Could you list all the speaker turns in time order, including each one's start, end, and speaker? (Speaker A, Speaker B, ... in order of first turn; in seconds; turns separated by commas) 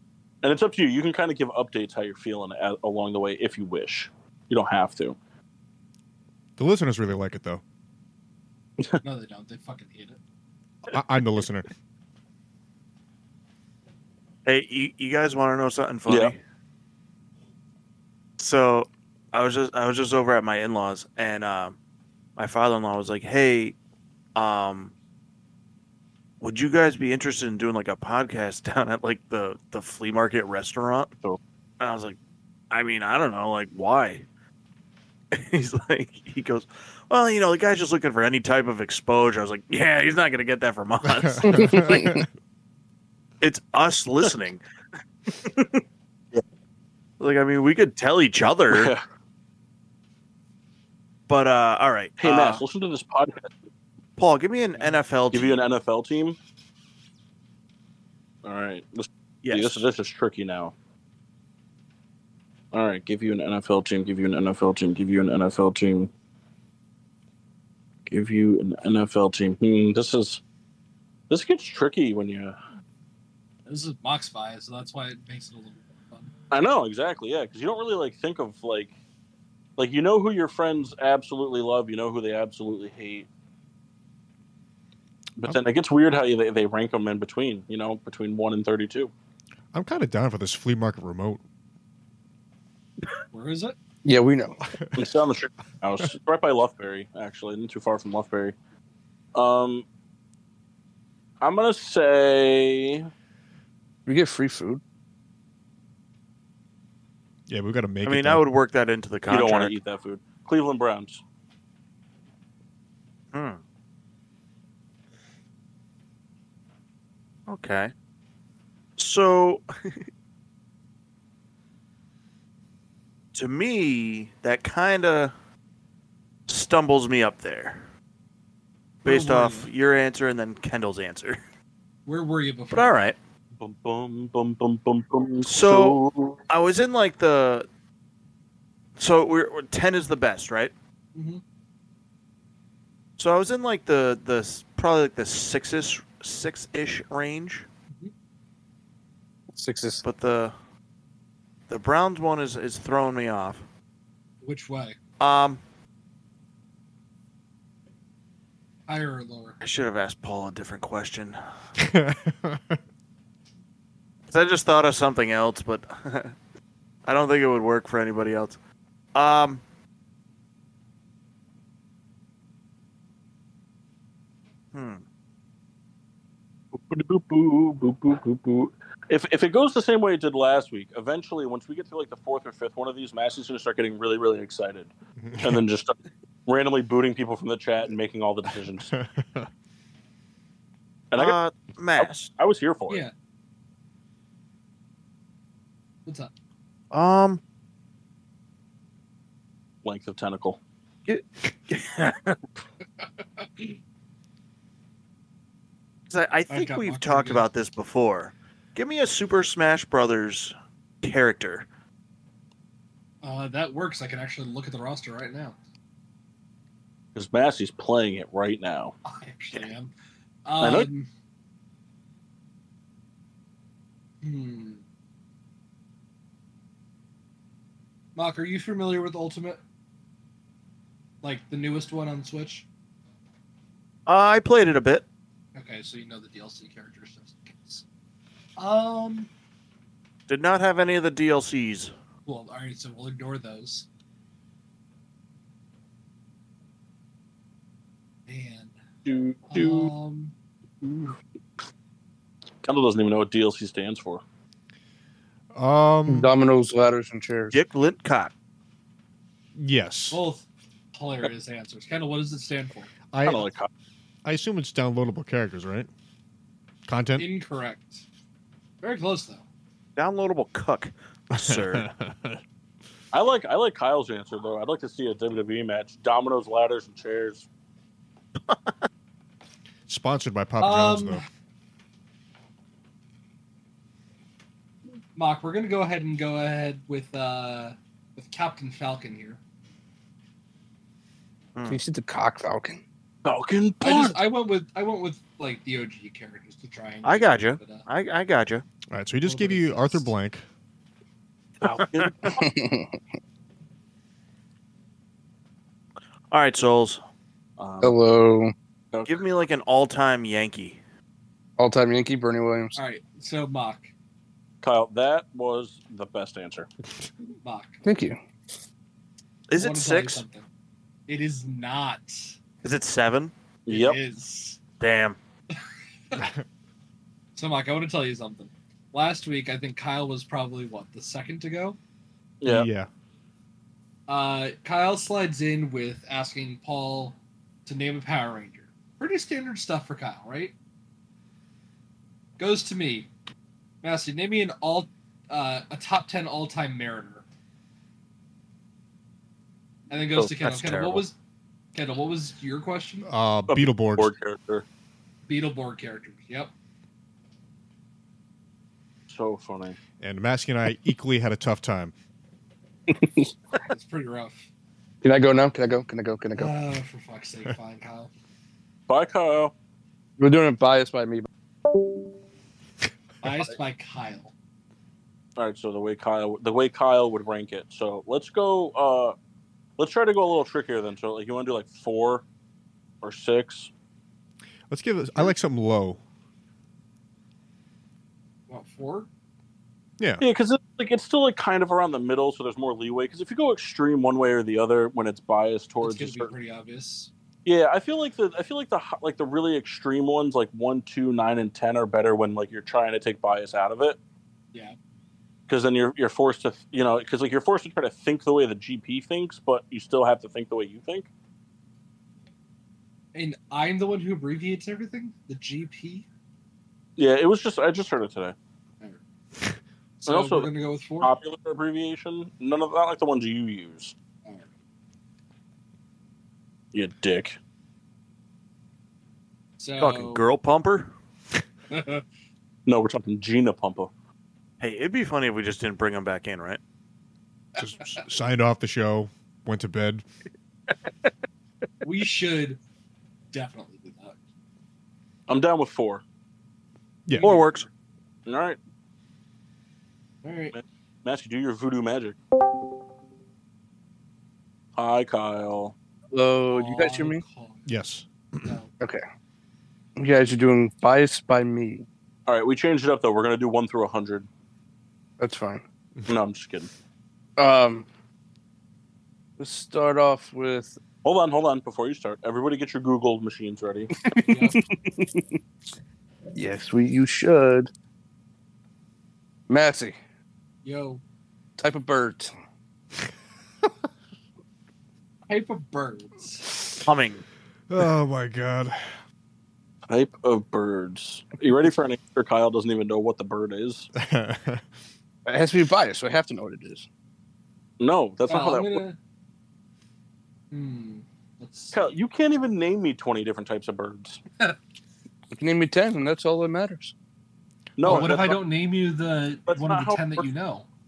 Speaker A: 0.4-5.2, Speaker B: 6.6-7.6, Speaker C: 9.0-10.2, Speaker B: 10.9-11.7, Speaker D: 14.4-16.4, Speaker A: 16.1-16.3, Speaker D: 18.4-21.8, Speaker D: 22.4-23.8, Speaker D: 24.4-24.9, Speaker D: 26.4-31.1, Speaker D: 31.8-32.2, Speaker D: 32.7-34.3, Speaker D: 35.3-42.1, Speaker B: 41.1-42.3, Speaker E: 41.5-42.2, Speaker D: 43.4-44.6, Speaker D: 45.3-45.8, Speaker D: 47.2-48.9, Speaker A: 48.7-49.0, Speaker D: 51.3-52.6, Speaker A: 52.2-53.5, Speaker D: 54.2-55.6, Speaker A: 55.3-56.4, Speaker A: 58.4-60.7, Speaker D: 59.4-59.9, Speaker A: 62.7-66.1, Speaker A: 68.1-70.4, Speaker A: 71.3-72.6, Speaker C: 73.7-76.3, Speaker A: 76.5-78.9, Speaker A: 79.8-83.3, Speaker A: 85.4-89.1, Speaker B: 89.7-91.4, Speaker C: 93.3-93.8, Speaker E: 94.0-94.6, Speaker B: 94.7-95.0, Speaker A: 95.0-98.5, Speaker A: 99.3-99.8, Speaker A: 101.4-103.1, Speaker E: 104.1-104.8, Speaker B: 107.5-108.4, Speaker D: 108.0-109.7, Speaker A: 109.3-111.2, Speaker D: 113.3-113.6, Speaker D: 117.5-117.9, Speaker D: 119.0-120.0, Speaker D: 123.3-125.3, Speaker D: 126.5-127.9, Speaker D: 129.0-131.4, Speaker C: 129.1-129.7, Speaker C: 132.1-132.9, Speaker D: 132.7-133.2, Speaker A: 133.6-136.4, Speaker D: 135.4-137.7, Speaker D: 139.0-140.7, Speaker C: 141.2-141.4, Speaker D: 143.2-147.7, Speaker E: 149.5-150.0, Speaker D: 150.0-150.6, Speaker D: 151.7-153.6, Speaker C: 154.4-155.0, Speaker D: 155.2-155.6, Speaker C: 158.9-159.6, Speaker D: 159.6-161.4, Speaker B: 161.8-162.8, Speaker D: 164.3-166.3, Speaker D: 167.1-168.6, Speaker D: 169.2-169.6, Speaker D: 174.7-175.0, Speaker A: 176.8-186.0, Speaker B: 185.2-185.6, Speaker A: 186.5-188.9, Speaker B: 188.9-189.5, Speaker A: 191.1-191.4, Speaker D: 191.2-192.3, Speaker A: 192.0-193.0, Speaker C: 196.1-196.3, Speaker D: 196.9-197.4, Speaker A: 199.8-200.6, Speaker D: 201.1-202.4, Speaker C: 203.4-203.8, Speaker D: 206.1-211.7, Speaker C: 206.5-207.5, Speaker C: 213.2-215.6, Speaker A: 217.2-218.9, Speaker C: 219.1-219.9, Speaker C: 220.4-221.1, Speaker A: 220.6-220.9, Speaker C: 224.2-224.8, Speaker C: 228.2-229.6, Speaker C: 231.2-232.7, Speaker D: 234.1-235.0, Speaker C: 235.6-237.8, Speaker C: 238.6-239.3, Speaker D: 240.3-241.9, Speaker C: 242.3-243.9, Speaker C: 248.3-248.8, Speaker A: 249.1-249.9, Speaker C: 249.5-250.3, Speaker A: 250.8-251.1, Speaker A: 252.6-254.2, Speaker B: 255.5-256.3, Speaker E: 256.1-257.6, Speaker D: 257.5-258.3, Speaker B: 259.6-260.2, Speaker C: 260.1-262.9, Speaker B: 263.1-263.4, Speaker A: 263.2-263.7, Speaker B: 264.2-265.9, Speaker B: 266.9-267.3, Speaker C: 267.2-268.1, Speaker C: 268.8-269.4, Speaker D: 270.0-271.9, Speaker B: 271.4-272.4, Speaker A: 273.1-277.5, Speaker D: 278.5-278.8, Speaker B: 279.9-281.2, Speaker C: 280.6-281.3, Speaker C: 285.1-289.4, Speaker D: 291.6-291.8, Speaker E: 291.7-292.8, Speaker A: 293.2-294.2, Speaker C: 293.8-297.9, Speaker D: 297.0-298.6, Speaker B: 298.9-300.4, Speaker C: 299.2-300.1, Speaker A: 301.6-302.4, Speaker D: 301.6-302.1, Speaker E: 302.4-302.9, Speaker D: 306.3-307.0, Speaker A: 307.6-308.0, Speaker E: 307.8-308.5, Speaker A: 308.9-309.2, Speaker D: 309.1-310.8, Speaker E: 311.6-312.8, Speaker C: 312.8-313.9, Speaker A: 314.6-316.7, Speaker C: 317.4-317.8, Speaker E: 317.9-318.2, Speaker D: 319.5-320.2, Speaker C: 319.6-320.5, Speaker C: 321.1-322.4, Speaker D: 322.6-323.3, Speaker A: 323.7-324.0, Speaker C: 323.7-324.6, Speaker D: 324.8-325.2, Speaker B: 326.2-326.4, Speaker C: 327.4-331.8, Speaker A: 332.4-332.7, Speaker B: 332.5-332.9, Speaker C: 334.1-340.5, Speaker C: 342.4-343.1, Speaker C: 343.8-347.2, Speaker C: 349.9-351.1, Speaker D: 350.4-351.1, Speaker C: 351.7-353.1, Speaker B: 353.1-354.1, Speaker A: 353.5-354.7, Speaker C: 355.3-356.5, Speaker A: 359.1-359.8, Speaker B: 360.0-361.9, Speaker C: 363.6-364.5, Speaker E: 365.0-366.5, Speaker C: 366.4-368.1, Speaker A: 368.9-369.5, Speaker E: 370.2-371.3, Speaker C: 373.2-374.3, Speaker A: 375.4-379.1, Speaker A: 379.8-382.2, Speaker A: 383.0-383.7, Speaker B: 384.7-386.0, Speaker C: 388.5-389.1, Speaker A: 390.2-396.3, Speaker C: 395.8-397.1, Speaker A: 397.4-404.0, Speaker A: 405.5-411.1, Speaker C: 413.1-416.1, Speaker A: 417.0-418.4, Speaker C: 420.0-421.1, Speaker A: 420.1-420.5, Speaker A: 421.0-423.9, Speaker C: 424.2-424.5, Speaker A: 426.7-427.4, Speaker C: 429.6-430.3, Speaker D: 429.8-430.9, Speaker C: 431.7-432.0, Speaker A: 432.7-433.9, Speaker D: 434.6-436.6, Speaker B: 437.6-440.0, Speaker C: 441.8-442.6, Speaker C: 443.3-444.2, Speaker A: 445.3-446.0, Speaker B: 447.1-447.3, Speaker C: 447.2-447.7, Speaker D: 447.2-447.7, Speaker A: 448.3-448.6, Speaker C: 450.2-450.5, Speaker A: 450.5-452.2, Speaker A: 454.8-455.8, Speaker E: 456.1-457.2, Speaker C: 456.5-457.7, Speaker B: 457.7-458.6, Speaker C: 458.4-458.7, Speaker E: 460.0-461.9, Speaker A: 462.3-464.3, Speaker E: 465.2-465.6, Speaker A: 466.1-466.7, Speaker E: 467.4-467.9, Speaker E: 469.4-470.8, Speaker A: 471.0-473.9, Speaker E: 474.0-475.3, Speaker C: 474.3-474.6, Speaker E: 476.4-477.7, Speaker E: 479.5-480.0, Speaker C: 480.6-481.0, Speaker E: 481.6-482.3, Speaker C: 485.3-486.5, Speaker D: 486.9-487.2, Speaker B: 487.7-489.0, Speaker A: 489.9-493.9, Speaker B: 494.0-494.6, Speaker E: 495.3-496.9, Speaker A: 497.8-498.8, Speaker C: 498.3-499.0, Speaker C: 500.5-501.8, Speaker A: 501.7-504.2, Speaker E: 505.3-506.9, Speaker A: 507.8-508.4, Speaker C: 507.8-510.7, Speaker A: 509.5-510.3